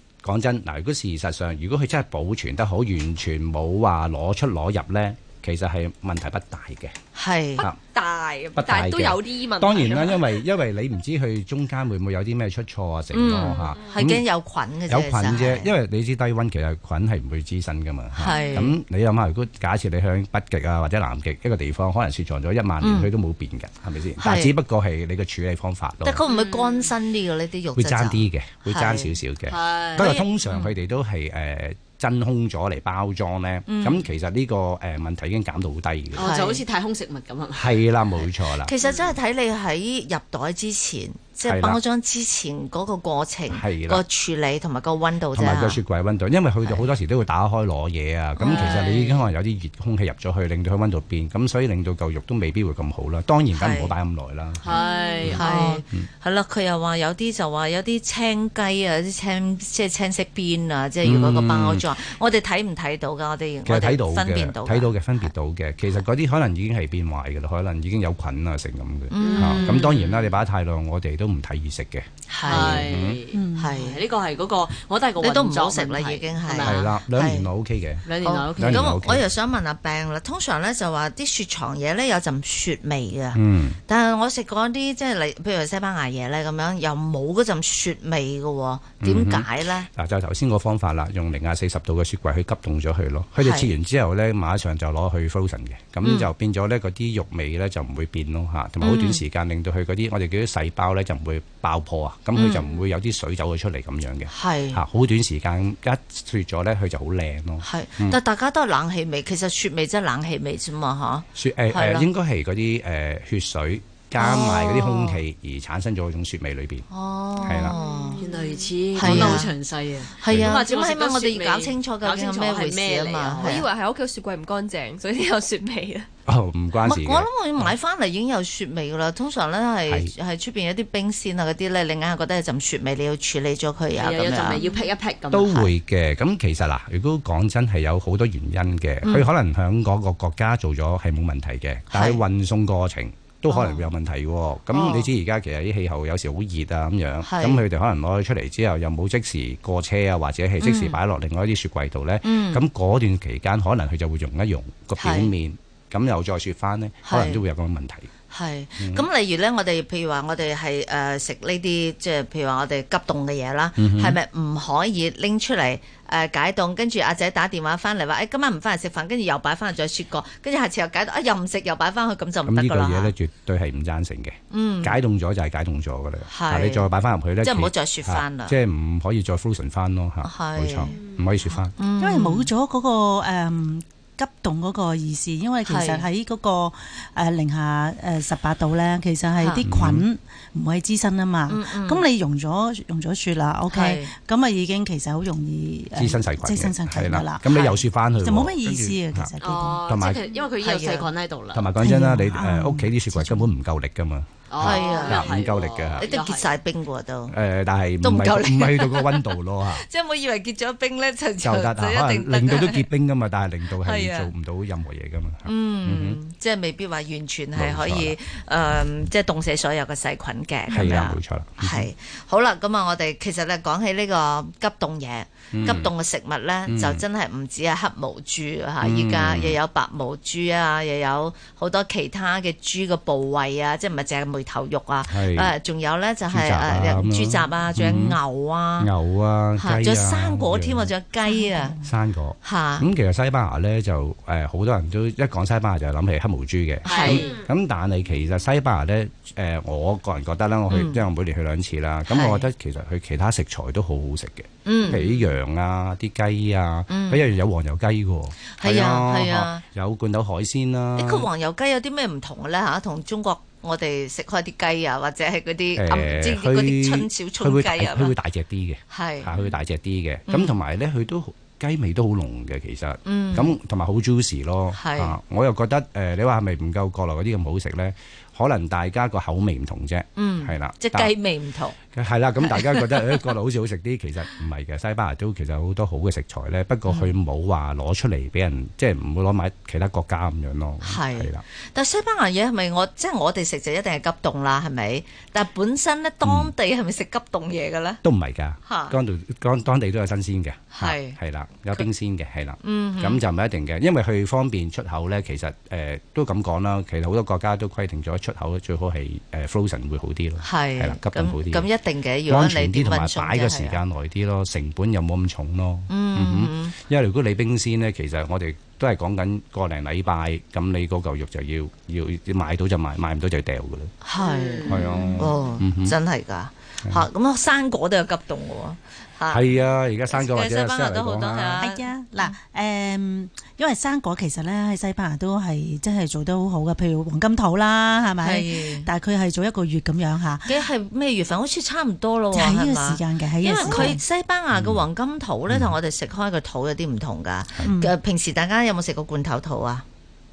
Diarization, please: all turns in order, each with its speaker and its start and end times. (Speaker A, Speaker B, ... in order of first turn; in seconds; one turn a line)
Speaker A: 0.2-6.9
Speaker B: 7.1-7.6
Speaker C: 7.6-10.4
Speaker A: 8.5-14.2
Speaker B: 13.1-15.7
Speaker C: 13.5-14.0
Speaker A: 14.9-26.2
Speaker B: 18.2-18.7
Speaker C: 18.2-18.7
Speaker B: 22.8-23.1
Speaker B: 24.2-24.5
Speaker B: 26.0-29.1
Speaker D: 26.3-26.9
Speaker A: 27.7-36.3
Speaker D: 29.5-30.2
Speaker B: 30.0-30.8
Speaker B: 33.7-34.0
Speaker D: 36.1-37.8
Speaker B: 36.2-36.6
Speaker A: 37.5-38.7
Speaker B: 38.6-45.8
Speaker D: 38.8-39.1
Speaker A: 41.4-41.8
Speaker A: 43.5-44.0
Speaker A: 45.3-54.6
Speaker B: 48.4-48.9
Speaker D: 48.4-49.3
Speaker B: 53.5-53.9
Speaker D: 54.6-55.8
Speaker C: 54.7-55.4
Speaker A: 55.2-56.1
Speaker B: 55.3-65.0
Speaker A: 61.0-61.9
Speaker A: 63.6-73.2
Speaker B: 69.1-69.8
Speaker D: 69.2-70.4
Speaker B: 72.3-72.9
Speaker D: 72.5-76.9
Speaker E: 73.3-73.7
Speaker B: 73.5-74.0
Speaker B: 75.2-77.5
Speaker A: 76.6-78.0
Speaker D: 78.0-78.9
Speaker B: 78.2-89.9
Speaker A: 78.6-79.3
Speaker A: 83.3-83.8
Speaker A: 89.0-108.2
Speaker B: 93.4-93.7
Speaker B: 96.0-96.3
Speaker B: 98.8-99.2
Speaker B: 102.3-102.6
Speaker B: 104.3-104.8
Speaker B: 107.6-112.1
Speaker A: 111.3-116.8
Speaker B: 114.2-115.2
Speaker B: 116.9-118.3
Speaker A: 117.4-117.8
Speaker C: 117.6-118.7
Speaker D: 118.2-123.6
Speaker B: 118.9-119.5
Speaker A: 119.0-119.4
Speaker B: 120.2-123.7
Speaker A: 120.3-120.6
Speaker C: 123.4-126.1
Speaker A: 126.3-127.7
Speaker B: 126.8-134.7
Speaker A: 129.9-130.1
Speaker D: 133.9-135.7
Speaker C: 134.6-134.9
Speaker A: 135.3-158.1
Speaker B: 139.0-139.3
Speaker B: 141.9-142.2
Speaker B: 143.5-143.9
Speaker B: 144.7-145.1
Speaker B: 147.2-147.6
Speaker B: 150.6-151.0
Speaker B: 152.2-152.6
Speaker B: 155.0-155.3
Speaker B: 157.0-157.4
Speaker B: 158.3-173.1
Speaker A: 158.8-159.0
Speaker A: 163.8-164.2
Speaker A: 172.5-181.7
Speaker B: 174.5-175.0
Speaker B: 176.3-176.9
Speaker B: 177.4-178.6
Speaker B: 180.2-182.5
Speaker E: 182.0-199.8
Speaker B: 185.7-186.1
Speaker B: 189.4-189.6
Speaker A: 189.6-190.1
Speaker B: 191.5-192.0
Speaker B: 193.7-194.1
Speaker A: 195.9-199.3
Speaker D: 199.4-201.7
Speaker A: 199.9-200.2
Speaker B: 200.6-201.1
Speaker A: 201.5-206.1
Speaker E: 201.8-203.5
Speaker D: 204.5-206.5
Speaker B: 204.6-205.3
Speaker B: 206.0-207.3
Speaker A: 207.3-209.8
Speaker B: 208.0-212.8
Speaker A: 211.4-216.2
Speaker B: 213.7-214.3
Speaker B: 215.4-238.9
Speaker A: 217.5-218.2
Speaker A: 220.7-221.9
Speaker A: 225.5-225.9
Speaker A: 226.7-227.0
Speaker A: 228.8-229.6
Speaker A: 235.1-235.5
Speaker A: 236.2-238.2
Speaker A: 238.8-240.9
Speaker B: 239.6-241.8
Speaker E: 241.2-241.8
Speaker A: 241.8-261.3
Speaker B: 242.4-242.8
Speaker D: 246.8-247.4
Speaker B: 246.9-247.3
Speaker B: 250.7-251.0
Speaker B: 252.1-252.5
Speaker B: 254.6-255.3
Speaker B: 256.9-257.3
Speaker B: 258.5-259.6
Speaker B: 260.9-268.1
Speaker A: 265.8-281.1
Speaker B: 268.9-269.3
Speaker B: 270.3-270.6
Speaker B: 273.1-273.5
Speaker B: 274.7-275.1
Speaker B: 280.2-281.8
Speaker A: 281.9-291.4
Speaker B: 282.4-283.3
Speaker B: 286.9-287.1
Speaker B: 290.8-298.0
Speaker A: 296.2-296.5
Speaker A: 298.0-311.7
Speaker B: 298.6-298.9
Speaker B: 300.7-301.2
Speaker B: 302.6-303.2
Speaker B: 310.4-313.8
Speaker A: 312.3-323.9
Speaker B: 315.9-316.7
Speaker B: 324.0-329.4
Speaker D: 324.2-325.2
Speaker A: 324.7-325.9
Speaker A: 329.3-331.6
Speaker B: 330.1-332.3
Speaker E: 331.6-340.6
Speaker B: 338.2-338.9
Speaker B: 340.5-349.8
Speaker E: 342.3-344.0
Speaker A: 344.5-344.8
Speaker A: 345.5-345.7
Speaker E: 347.6-347.9